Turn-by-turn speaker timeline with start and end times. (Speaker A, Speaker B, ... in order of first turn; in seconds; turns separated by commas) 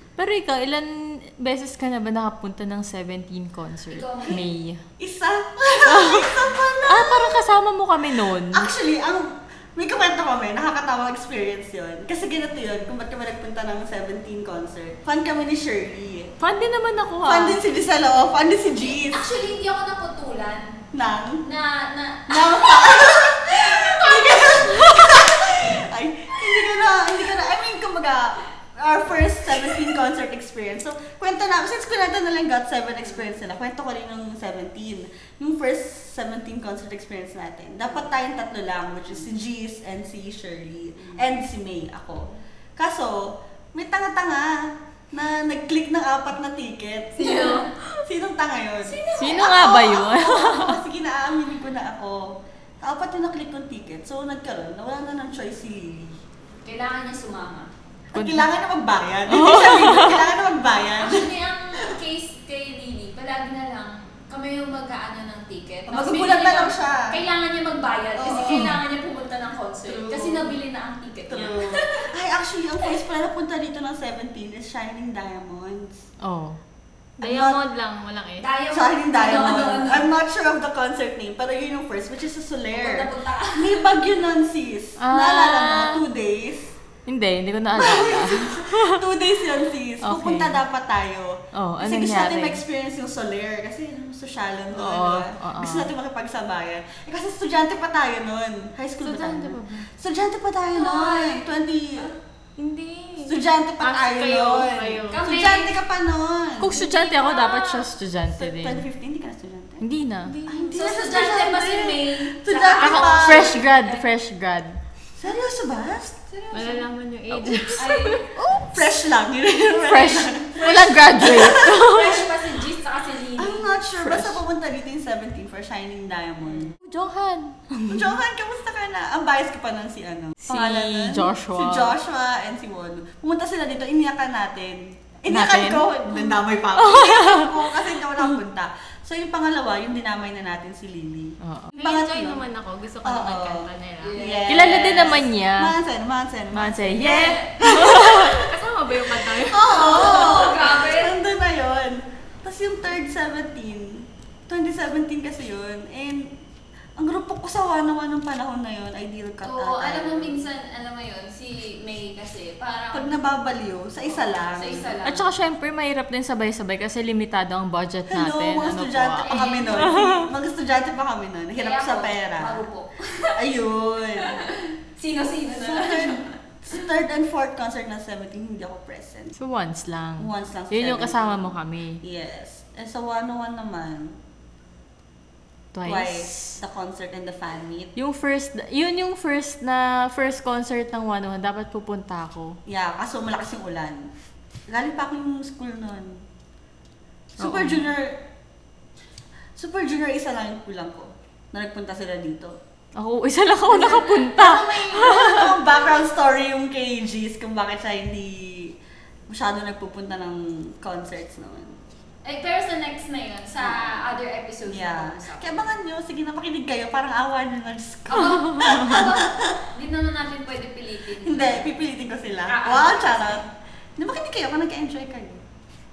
Speaker A: 0.2-4.8, Speaker B: 3.9-4.4, Speaker C: 5.0-7.4, Speaker A: 5.8-8.7, Speaker C: 8.4-16.3, Speaker A: 16.4-17.6, Speaker C: 17.2-19.3, Speaker B: 18.8-20.8, Speaker C: 20.9-21.4, Speaker B: 21.4-25.2, Speaker C: 22.3-56.2, Speaker B: 26.4-26.6, Speaker B: 47.2-47.7, Speaker B: 48.9-50.0, Speaker A: 49.2-50.8, Speaker B: 56.6-57.7, Speaker C: 58.1-61.3, Speaker A: 58.1-58.5, Speaker A: 59.3-60.2, Speaker B: 61.0-72.1, Speaker C: 65.9-67.2, Speaker C: 68.2-68.8, Speaker C: 71.3-76.0, Speaker A: 76.2-76.6, Speaker D: 77.2-78.5, Speaker C: 77.2-77.6, Speaker B: 78.4-80.1, Speaker C: 78.7-86.8, Speaker B: 82.7-83.8, Speaker A: 85.0-86.0, Speaker A: 87.1-89.0, Speaker C: 87.8-102.1, Speaker A: 90.0-90.6, Speaker A: 91.5-92.6, Speaker A: 94.7-95.9, Speaker D: 99.0-99.9, Speaker B: 100.7-101.5, Speaker D: 102.6-105.2, Speaker C: 103.2-106.8, Speaker A: 104.2-104.8, Speaker B: 105.1-105.8, Speaker A: 106.6-108.8, Speaker B: 106.8-107.8, Speaker C: 108.3-109.8, Speaker A: 109.8-110.3, Speaker D: 110.3-111.0, Speaker C: 110.5-113.6, Speaker B: 110.7-114.0, Speaker A: 112.8-114.8, Speaker C: 115.2-116.2, Speaker B: 116.3-116.9, Speaker D: 116.5-117.9, Speaker A: 117.3-118.7, Speaker B: 117.8-118.3, Speaker C: 118.4-122.3, Speaker A: 119.8-122.2, Speaker B: 121.6-123.8, Speaker C: 123.4-126.7, Speaker A: 124.0-124.4, Speaker A: 126.8-128.1, Speaker C: 127.9-142.4, Speaker A: 130.4-131.9, Speaker A: 135.3-137.6, Speaker A: 141.4-141.7, Speaker D: 141.8-144.2, Speaker C: 143.0-148.5, Speaker B: 144.0-144.7, Speaker A: 144.5-145.7, Speaker A: 146.5-148.4, Speaker B: 147.0-147.6, Speaker D: 148.1-150.4, Speaker C: 149.4-156.3, Speaker B: 149.6-151.1, Speaker C: 157.0-160.4, Speaker B: 159.4-163.1, Speaker C: 162.9-165.0, Speaker B: 164.1-165.3, Speaker A: 165.0-170.3, Speaker C: 168.1-172.6, Speaker B: 169.2-170.0, Speaker B: 171.6-173.4, Speaker C: 173.4-174.4, Speaker B: 174.2-176.8, Speaker C: 175.5-179.4, Speaker A: 179.4-182.0, Speaker C: 180.2-184.2, Speaker A: 185.7-186.6, Speaker C: 185.8-187.9, Speaker A: 188.0-192.6, Speaker C: 192.7-194.1, Speaker C: 194.7-196.2, Speaker C: 197.4-198.2, Speaker A: 197.4-197.8, Speaker C: 199.6-202.6, Speaker A: 203.0-205.6, Speaker B: 203.8-204.8, Speaker C: 204.3-208.8, Speaker C: 209.3-211.8, Speaker B: 212.2-215.7, Speaker C: 213.6-214.0, Speaker C: 214.7-219.6, Speaker B: 218.1-221.7, Speaker A: 218.4-218.8, Speaker C: 221.2-223.4, Speaker B: 222.5-223.4, Speaker C: 224.0-225.4